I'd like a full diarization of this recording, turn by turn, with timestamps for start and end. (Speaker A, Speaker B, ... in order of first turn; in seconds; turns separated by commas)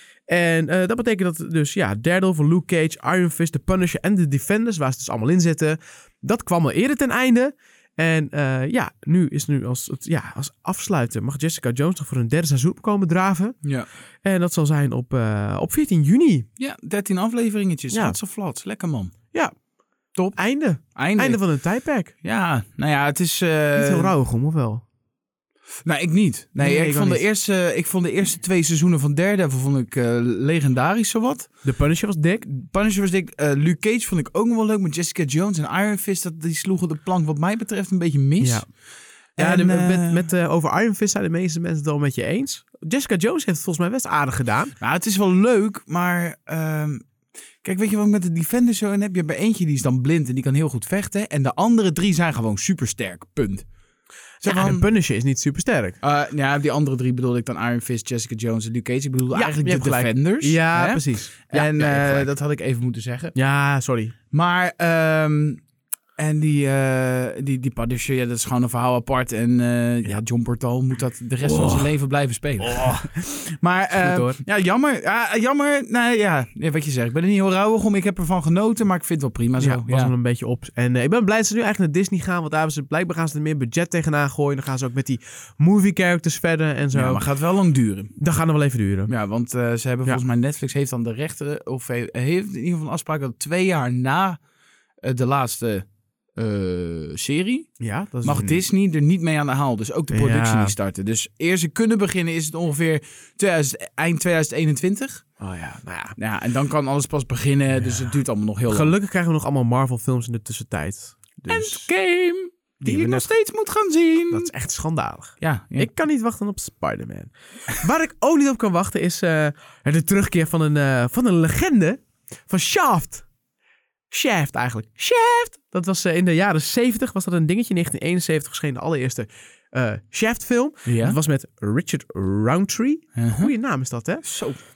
Speaker A: 0.3-13.6, Speaker B: 13.6-13.9, Speaker A: 14.2-16.4, Speaker B: 16.6-19.1, Speaker A: 17.9-18.2, Speaker A: 20.3-22.1, Speaker B: 20.9-21.4, Speaker B: 22.2-24.1, Speaker A: 23.8-24.8, Speaker B: 25.8-31.5, Speaker A: 26.6-27.2, Speaker A: 31.6-32.5, Speaker B: 32.4-38.6, Speaker A: 38.4-38.7, Speaker B: 39.4-40.2, Speaker A: 39.4-44.8, Speaker B: 44.8-47.0, Speaker B: 47.6-53.6, Speaker B: 54.4-54.9, Speaker A: 54.4-56.0, Speaker B: 56.0-63.3, Speaker A: 59.3-62.3, Speaker A: 63.3-64.1, Speaker B: 64.3-65.6, Speaker B: 66.2-80.1, Speaker A: 71.4-71.9, Speaker A: 72.6-73.2, Speaker A: 73.9-74.4, Speaker A: 79.6-87.2, Speaker B: 86.9-88.1, Speaker A: 88.2-89.1, Speaker B: 89.1-94.4, Speaker B: 95.0-95.8, Speaker B: 96.4-97.7, Speaker A: 97.8-98.6, Speaker B: 98.2-105.2, Speaker A: 100.1-100.7, Speaker A: 105.4-106.2, Speaker B: 106.2-108.9, Speaker A: 108.7-111.9, Speaker B: 111.5-114.5, Speaker A: 112.8-113.3, Speaker A: 114.3-123.2, Speaker B: 115.4-115.9, Speaker A: 124.1-134.2, Speaker B: 130.9-131.2, Speaker B: 133.2-133.5, Speaker B: 134.2-134.6